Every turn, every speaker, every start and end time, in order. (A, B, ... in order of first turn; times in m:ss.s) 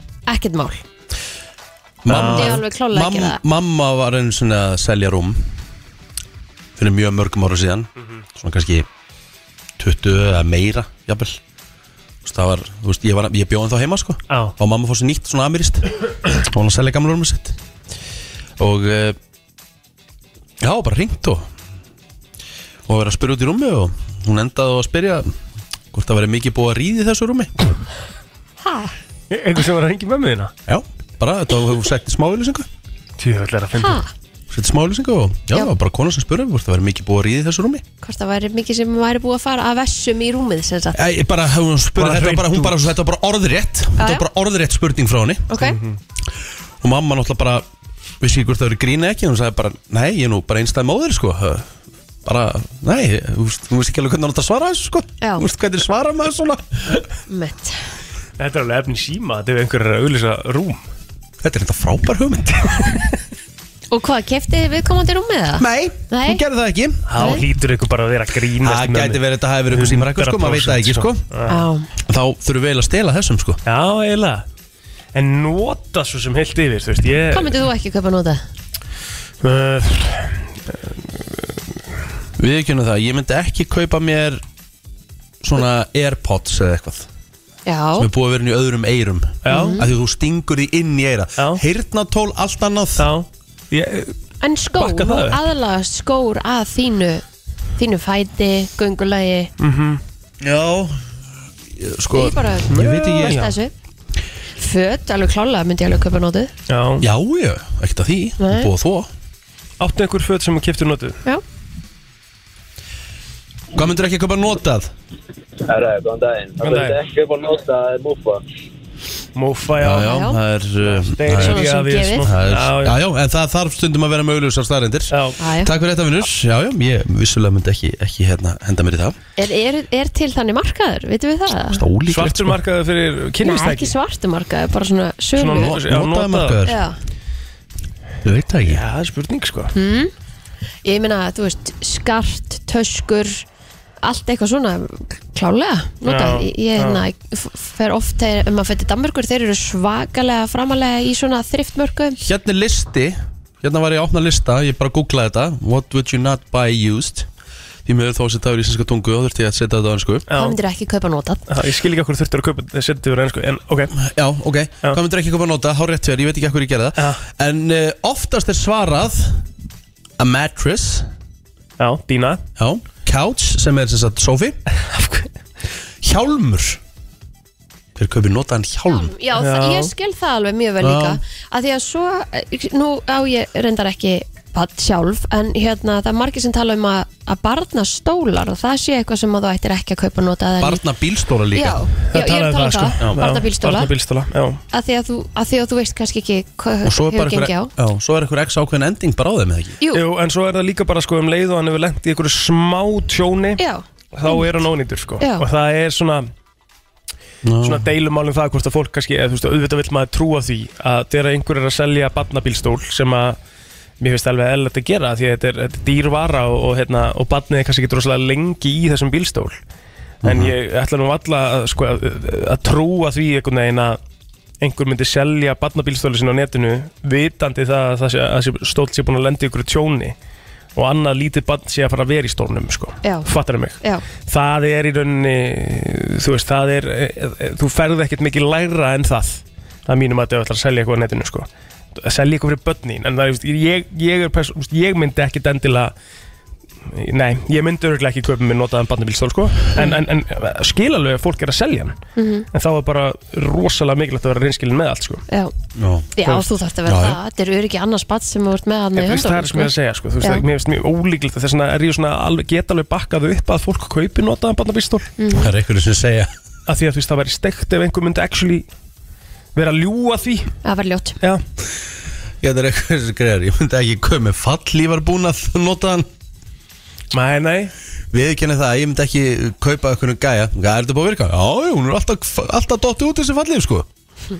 0:00.3-0:00.8 A
0:02.0-0:05.5 B
0:02.1-0:02.6 C
0:02.1-0:03.4 A
0:06.8-0:08.9 B
0:09.8-0:11.4 B
0:12.2-0:17.6 B
0:18.6-0:19.2 B
0:20.6-0:21.5 B
0:22.9-0:25.3 B
0:25.9-0:27.5 B
0:28.6-0:28.9 A
0:29.3-0:30.5 C
0:30.7-0:32.7 B
0:33.2-0:34.0 C
0:33.8-0:34.1 A
0:34.5-0:37.8 B
0:38.0-0:41.0 A
0:40.9-0:45.6 B
0:42.0-0:42.8 C
0:44.0-0:44.2 A
0:45.5-0:45.8 A
0:45.6-0:46.0 C
0:46.8-0:47.6 B
0:48.2-0:51.7 B
0:52.2-0:56.8 B
0:55.2-0:55.4 A
0:57.3-0:57.8 A
0:58.4-1:00.8 C
1:01.4-1:02.6 B
1:03.9-1:06.4 A
1:05.6-1:07.4 B
1:07.1-1:11.7 C
1:07.2-1:07.4 A
1:08.6-1:11.2 B
1:11.5-1:11.9 A
1:12.0-1:13.6 B
1:13.6-1:14.4 C
1:15.1-1:17.6 C
1:17.3-1:18.4 A
1:19.4-1:20.9 C
1:22.4-1:24.4 B
1:25.4-1:27.1 B
1:27.6-1:28.1 A
1:28.0-1:33.1 B
1:29.4-1:29.8 C
1:29.5-1:29.8 A
1:33.0-1:34.1 C
1:34.4-1:37.2 A
1:34.7-1:35.4 C
1:37.8-1:39.5 A
1:39.6-1:40.0 C
1:40.4-1:41.0 B
1:41.7-1:43.5 B
1:42.1-1:43.7 A
1:42.7-1:43.5 C
1:44.6-1:46.5 A
1:46.7-1:47.0 C
1:47.0-1:49.1 B
1:48.4-1:48.7 A
1:49.8-1:51.2 C
1:53.7-1:54.9 B
1:55.6-1:58.4 D
1:56.6-1:57.0 C
1:59.3-2:00.1 C
1:59.8-2:01.6 B
2:00.0-2:00.4 A
2:00.8-2:03.0 C
2:01.3-2:02.3 A
2:02.2-2:09.2 B
2:05.1-2:05.4 C
2:05.4-2:05.7 A
2:09.4-2:11.8 A
2:11.7-2:12.6 B
2:12.1-2:13.9 C
2:13.4-2:15.8 A
2:15.4-2:16.6 C
2:15.6-2:16.8 B
2:16.6-2:17.0 A
2:18.2-2:18.8 B
2:18.6-2:19.7 C
2:19.7-2:20.1 A
2:20.8-2:23.4 A
2:24.0-2:32.2 A
2:26.0-2:27.0 C
2:32.2-2:37.3 B
2:37.8-2:40.2 B
2:40.3-2:40.6 C
2:40.3-2:41.4 A
2:41.5-2:43.9 C
2:44.0-2:49.4 B
2:50.2-2:51.1 B
2:51.8-2:52.4 C
2:52.6-2:54.6 B
2:54.9-2:55.3 C
2:56.0-2:56.8 B
2:58.0-2:59.1 B
2:58.9-3:10.8 A
2:59.4-2:59.9 C
3:00.8-3:01.2 B
3:10.6-3:11.8 B
3:11.5-3:13.9 A
3:12.1-3:14.6 C
3:14.7-3:17.7 A
3:16.8-3:19.8 B
3:19.9-3:23.6 C
3:23.6-3:24.5 A
3:24.1-3:26.3 C
3:25.2-3:25.4 A
3:27.4-3:27.8 B
3:27.6-3:33.4 C
3:34.0-3:39.6 C
3:40.2-3:40.5 B
3:40.2-3:44.0 C
3:44.6-3:50.1 C
3:50.7-4:05.9 C
3:53.0-3:53.3 A
4:06.9-4:12.0 C
4:12.2-4:12.4 A
4:12.5-4:15.2 C
4:15.8-4:16.1 B
4:16.2-4:20.4 A
4:16.9-4:17.2 B
4:19.0-4:25.1 C
4:25.2-4:25.5 A
4:25.3-4:26.3 B
4:26.7-4:28.6 C
4:29.5-4:30.5 C
4:30.6-4:31.2 A
4:32.4-4:36.1 B
4:37.1-4:37.7 C
4:38.1-4:43.9 B